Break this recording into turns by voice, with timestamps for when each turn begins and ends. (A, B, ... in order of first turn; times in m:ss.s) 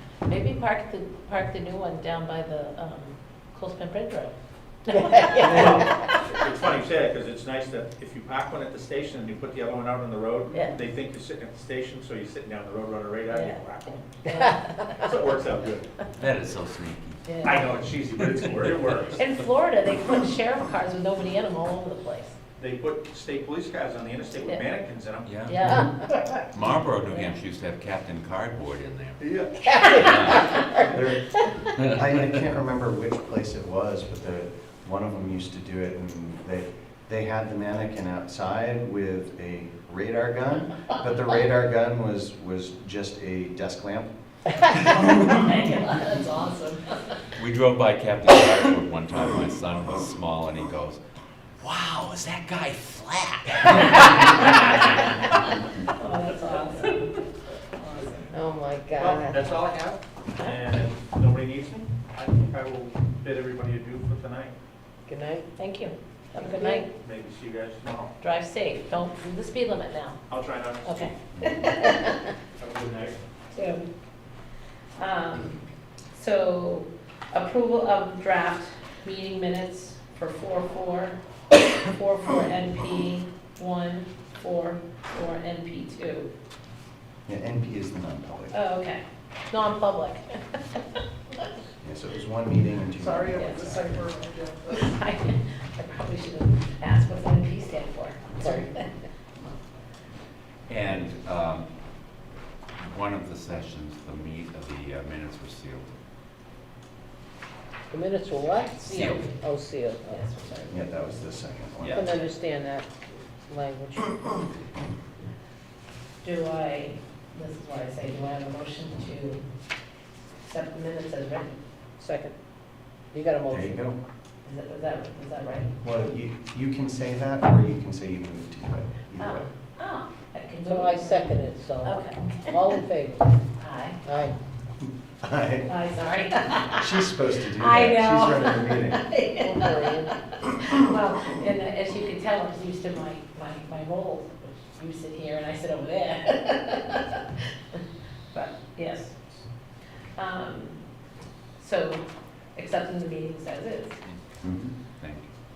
0:00.3-0:04.3 A
0:04.8-0:06.1 A
0:04.9-0:05.8 B
0:05.4-0:14.4 C
0:13.3-0:15.0 A
0:14.9-0:15.9 C
0:16.2-0:19.1 D
0:17.2-0:17.8 A
0:17.4-0:19.2 C
0:19.2-0:22.3 A
0:22.6-0:25.4 C
0:24.4-0:24.7 A
0:25.2-0:25.6 D
0:25.4-0:26.1 A
0:26.5-0:29.2 D
0:29.2-0:29.7 C
0:29.6-0:30.9 B
0:29.8-0:30.5 D
0:30.8-0:44.1 E
0:44.7-0:47.2 A
0:47.4-0:51.0 D
0:51.6-0:55.5 D
0:53.9-0:58.3 A
0:58.3-0:59.5 B
0:59.0-1:04.5 C
1:00.4-1:00.7 A
1:05.1-1:05.5 B
1:05.6-1:06.9 A
1:06.4-1:06.8 B
1:07.0-1:08.1 C
1:08.2-1:10.2 A
1:10.3-1:11.1 C
1:10.8-1:12.3 A
1:11.4-1:11.7 E
1:12.6-1:13.2 C
1:13.5-1:13.8 A
1:15.0-1:15.6 A
1:16.1-1:26.3 A
1:27.3-1:28.5 E
1:28.5-1:31.5 A
1:31.8-1:34.1 E
1:33.3-1:33.7 A
1:34.7-1:38.9 A
1:38.4-1:38.6 B
1:40.7-1:41.7 D
1:42.8-1:45.9 D
1:47.9-1:50.2 B
1:48.8-1:49.3 A
1:48.8-1:49.3 D
1:50.1-1:50.8 A
1:50.7-1:52.1 E
1:51.8-1:52.1 D
1:51.9-1:54.5 B
1:56.2-1:59.4 A
2:00.4-2:01.6 A
2:02.0-2:02.3 B
2:03.1-2:03.8 B
2:03.5-2:04.0 E
2:04.4-2:05.7 A
2:05.8-2:09.5 E
2:09.2-2:12.8 A
2:10.6-2:13.4 B
2:13.6-2:14.0 A
2:14.0-2:14.3 B
2:15.2-2:15.7 E
2:15.6-2:16.9 A
2:16.5-2:19.1 E
2:17.5-2:29.4 A
2:19.4-2:20.1 B
2:30.2-2:30.9 A
2:31.6-2:32.0 A
2:32.5-2:34.0 A
2:34.4-2:34.7 E
2:34.8-2:35.3 D